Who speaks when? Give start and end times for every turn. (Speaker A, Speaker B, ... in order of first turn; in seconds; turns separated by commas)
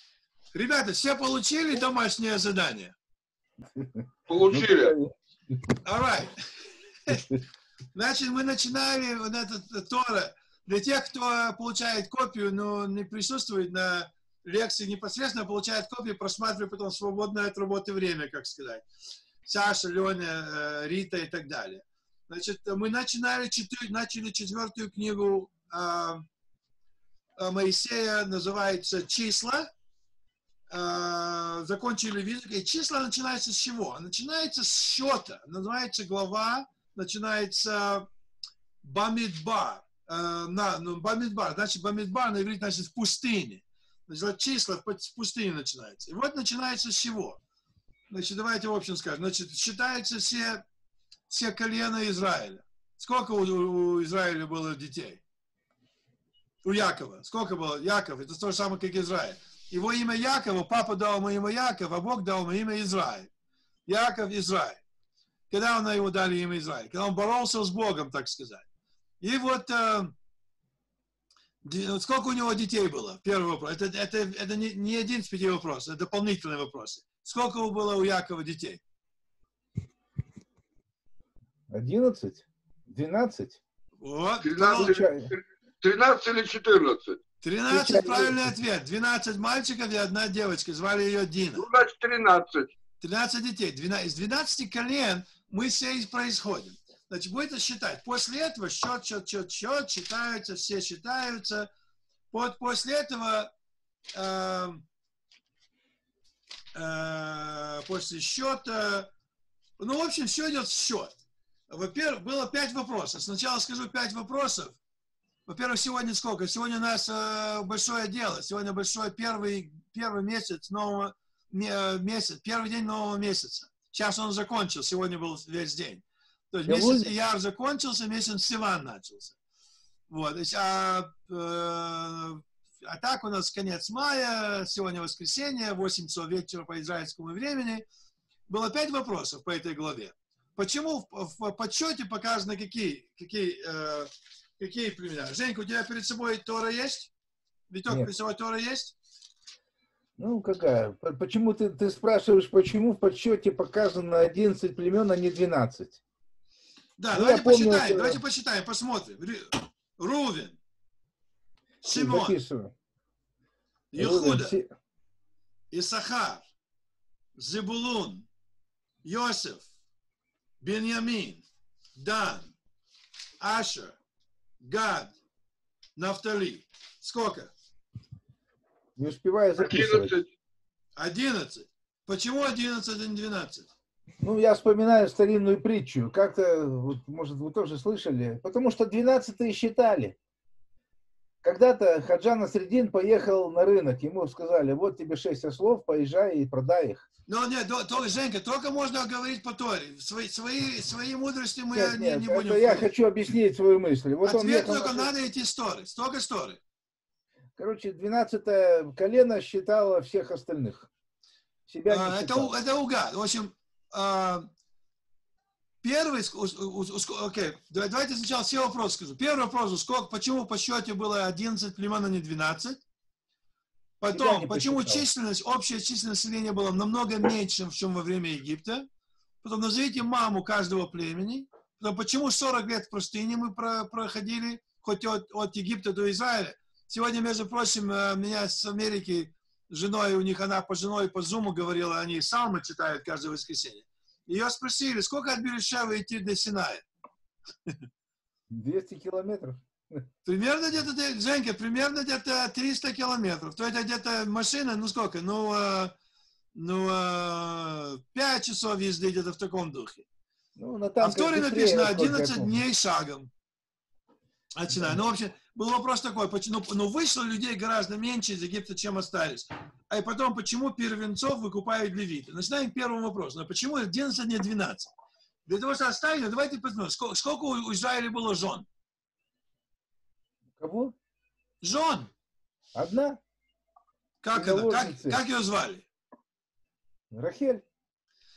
Speaker A: 0.5-3.0, Speaker B: 3.8-5.6, Speaker C: 4.3-5.0, Speaker A: 5.8-6.3, Speaker A: 7.9-18.9, Speaker A: 19.5-26.2, Speaker A: 27.4-29.7, Speaker A: 30.7-38.1, Speaker A: 38.8-47.4, Speaker A: 48.1-50.6, Speaker A: 51.3-55.2, Speaker A: 56.6-63.3, Speaker A: 63.9-64.8, Speaker A: 65.5-68.7, Speaker A: 69.2-70.1, Speaker A: 71.6-78.8, Speaker B: 81.7-83.6, Speaker A: 84.0-85.0, Speaker C: 84.4-87.2, Speaker B: 84.6-85.3, Speaker A: 87.4-91.7, Speaker B: 87.7-88.5, Speaker C: 91.6-92.7, Speaker A: 93.0-101.7, Speaker A: 102.3-103.5, Speaker A: 104.1-104.8, Speaker A: 106.8-109.1, Speaker A: 109.8-111.2, Speaker A: 111.7-114.8, Speaker A: 115.5-129.3, Speaker B: 126.7-127.1, Speaker A: 130.1-137.9, Speaker A: 138.5-147.1, Speaker A: 147.7-148.9, Speaker B: 150.2-156.0, Speaker A: 157.0-160.6, Speaker B: 157.1-158.2, Speaker A: 161.8-162.4, Speaker B: 161.8-162.7, Speaker A: 163.9-164.6, Speaker B: 164.0-164.7, Speaker A: 165.7-166.4, Speaker A: 167.4-168.3, Speaker A: 169.0-169.7, Speaker A: 170.6-171.4, Speaker A: 172.0-172.5, Speaker A: 173.4-174.0, Speaker A: 174.6-175.2, Speaker A: 176.0-177.5, Speaker B: 179.0-180.2, Speaker C: 179.6-180.3, Speaker A: 181.0-183.7, Speaker B: 184.2-190.2, Speaker B: 191.4-197.1, Speaker A: 197.3-202.9, Speaker B: 201.7-205.1, Speaker A: 204.2-206.6, Speaker B: 207.6-210.9, Speaker B: 211.7-212.5, Speaker A: 211.9-214.5, Speaker A: 215.8-222.8, Speaker A: 224.0-228.9, Speaker B: 224.1-225.1, Speaker A: 229.4-246.9, Speaker B: 248.5-250.0, Speaker A: 250.2-255.9, Speaker A: 256.5-260.1, Speaker B: 260.6-262.6, Speaker A: 261.0-263.3, Speaker A: 264.6-274.9, Speaker B: 264.7-265.0, Speaker A: 275.5-278.7, Speaker B: 280.6-280.9, Speaker A: 281.6-282.1, Speaker B: 282.8-283.2, Speaker A: 284.2-285.9, Speaker B: 284.3-285.2, Speaker B: 287.1-287.6